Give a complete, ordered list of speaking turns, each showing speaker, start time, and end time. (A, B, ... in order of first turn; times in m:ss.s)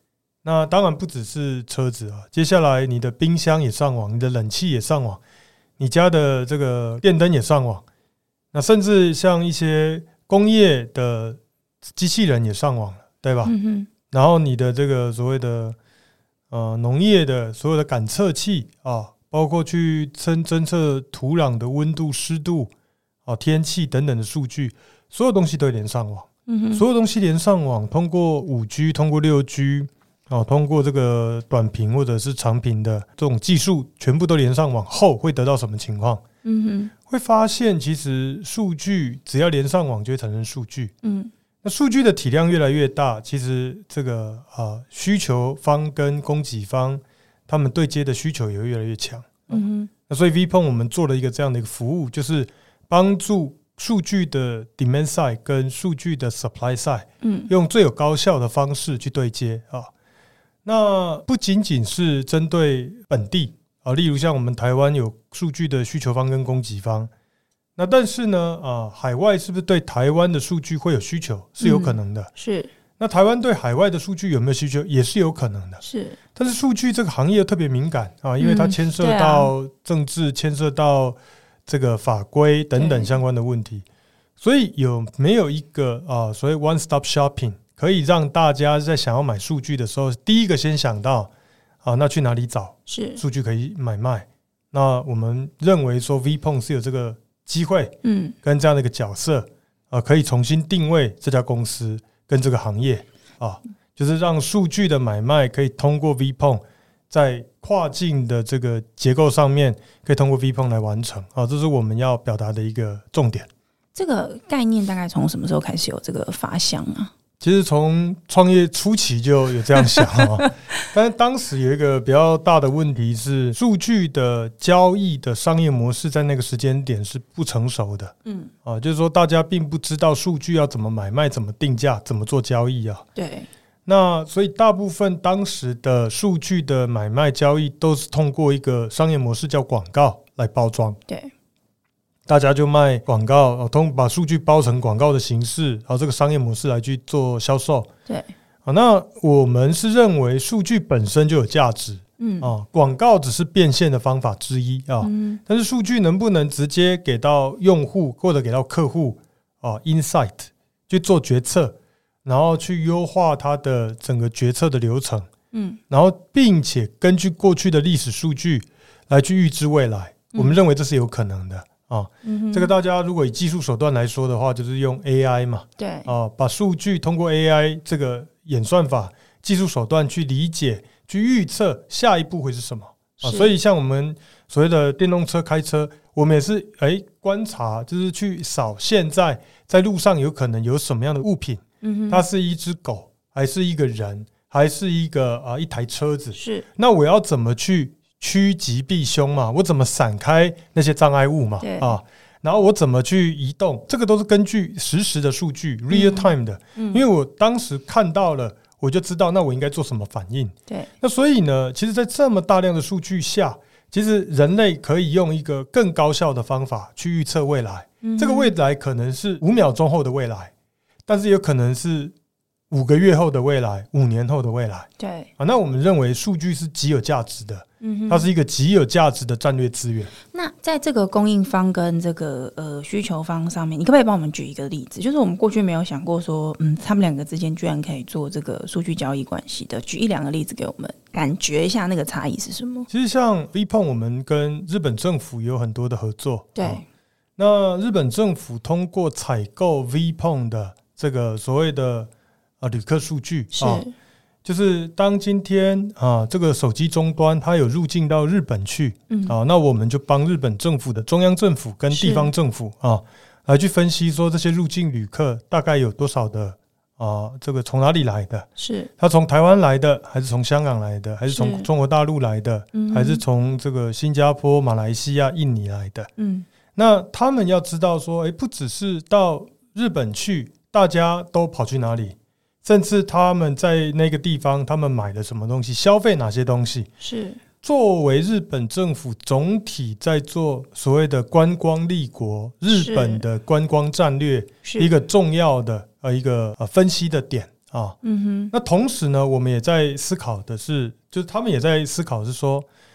0:00.4-0:05.2 A
0:05.8-0:07.8 A
0:08.5-0:11.4 A
0:12.0-0:13.5 A
0:13.4-0:13.9 B
0:14.1-0:15.8 A
0:16.5-0:22.7 A
0:23.3-0:36.2 A
0:26.5-0:26.8 B
0:36.4-0:36.9 B
0:37.1-0:40.9 A
0:41.0-0:41.3 B
0:41.6-0:59.9 A
0:49.5-0:49.9 B
0:57.2-0:57.5 B
1:00.6-1:07.1 A
1:07.8-1:12.3 A
1:11.6-1:12.7 B
1:13.0-1:15.8 A
1:15.8-1:16.2 B
1:16.4-1:23.9 A
1:18.4-1:19.5 B
1:22.8-1:23.2 B
1:24.4-1:31.3 A
1:31.8-1:53.5 A
1:32.9-1:33.2 B
1:38.0-1:38.4 B
1:54.0-1:57.1 B
1:57.4-2:08.1 A
1:59.8-2:00.8 B
2:08.3-2:08.5 B
2:08.6-2:13.1 A
2:13.2-2:13.5 B
2:13.9-2:21.0 A
2:22.3-2:27.9 A
2:28.6-2:45.3 A
2:32.2-2:32.5 B
2:35.0-2:35.4 B
2:45.5-2:45.8 B
2:45.9-3:40.5 A
2:50.3-2:50.6 B
2:52.2-2:52.7 B
2:55.8-2:56.1 B
3:03.2-3:03.5 B
3:11.8-3:12.2 B
3:16.3-3:16.7 B
3:21.6-3:22.0 B
3:25.9-3:27.0 B
3:38.0-3:38.5 B
3:41.1-3:42.1 A
3:42.7-3:50.1 A
3:45.0-3:45.3 B
3:47.8-3:48.3 B
3:50.3-4:02.9 B
4:02.9-4:06.8 A
4:06.6-4:06.8 B
4:07.4-4:12.1 A
4:12.6-4:13.8 A
4:13.5-4:13.9 B
4:14.4-4:28.5 A
4:19.1-4:19.4 B
4:21.9-4:22.3 B
4:28.6-4:28.9 B
4:29.0-4:36.1 A
4:31.3-4:31.7 B
4:32.8-4:33.2 B
4:36.2-4:36.5 B
4:36.8-4:46.9 A
4:47.0-4:47.4 B
4:47.6-4:58.0 A
4:52.7-4:53.2 B
4:54.6-4:54.9 B
4:58.0-4:58.5 B
4:58.5-5:02.7 A